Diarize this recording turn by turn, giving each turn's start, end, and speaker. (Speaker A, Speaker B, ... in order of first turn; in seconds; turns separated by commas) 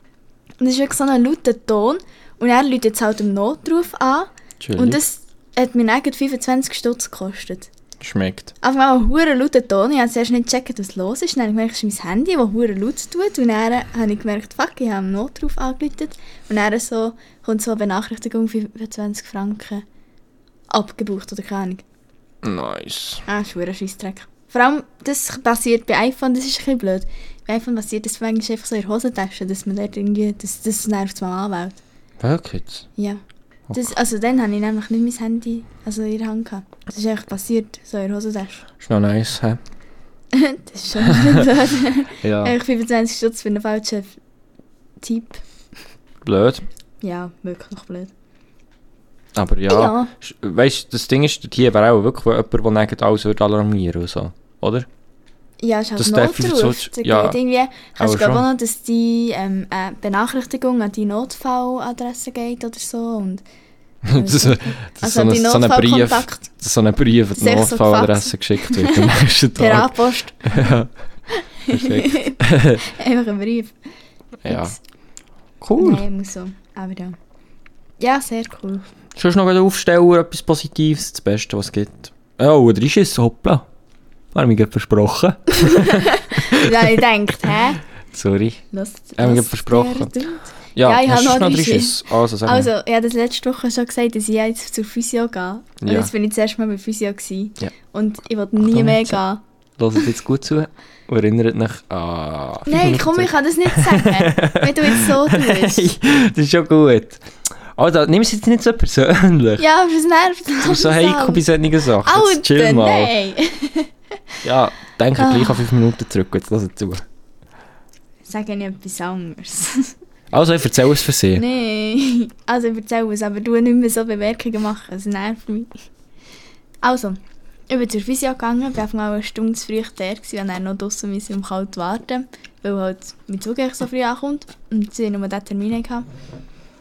Speaker A: 0.6-7.7, Speaker B: 4.6-5.0, Speaker B: 8.0-8.5, Speaker A: 8.6-19.9, Speaker A: 20.7-21.8, Speaker B: 22.4-23.2, Speaker A: 23.3-31.8, Speaker B: 32.2-32.9, Speaker A: 33.0-38.6, Speaker B: 38.8-39.6, Speaker A: 40.3-44.1, Speaker B: 41.0-41.5, Speaker B: 42.2-42.6, Speaker A: 45.0-45.4, Speaker B: 46.2-46.7, Speaker A: 47.0-48.1, Speaker B: 49.4-54.9, Speaker A: 49.7-50.1, Speaker A: 55.6-63.4, Speaker B: 56.0-57.4, Speaker B: 58.0-58.5, Speaker B: 64.0-70.9, Speaker A: 64.1-66.5, Speaker A: 67.4-70.7, Speaker A: 71.4-73.8, Speaker B: 71.7-72.8, Speaker B: 74.4-74.8, Speaker A: 74.5-74.8, Speaker B: 75.6-76.0, Speaker A: 75.8-77.2, Speaker A: 78.0-78.9, Speaker B: 79.2-83.7, Speaker B: 84.3-87.0, Speaker A: 85.6-87.8, Speaker B: 88.1-88.6, Speaker A: 88.7-99.4, Speaker B: 89.2-90.1, Speaker B: 90.8-92.7, Speaker B: 95.8-96.1, Speaker B: 98.6-99.2, Speaker B: 99.8-107.2, Speaker A: 102.7-105.9, Speaker B: 107.8-109.6, Speaker A: 109.6-111.5, Speaker B: 110.6-113.1, Speaker A: 112.0-113.9, Speaker B: 114.4-117.0, Speaker A: 115.2-115.7, Speaker A: 118.3-119.9, Speaker B: 120.3-121.5, Speaker A: 121.3-125.7, Speaker A: 126.8-136.1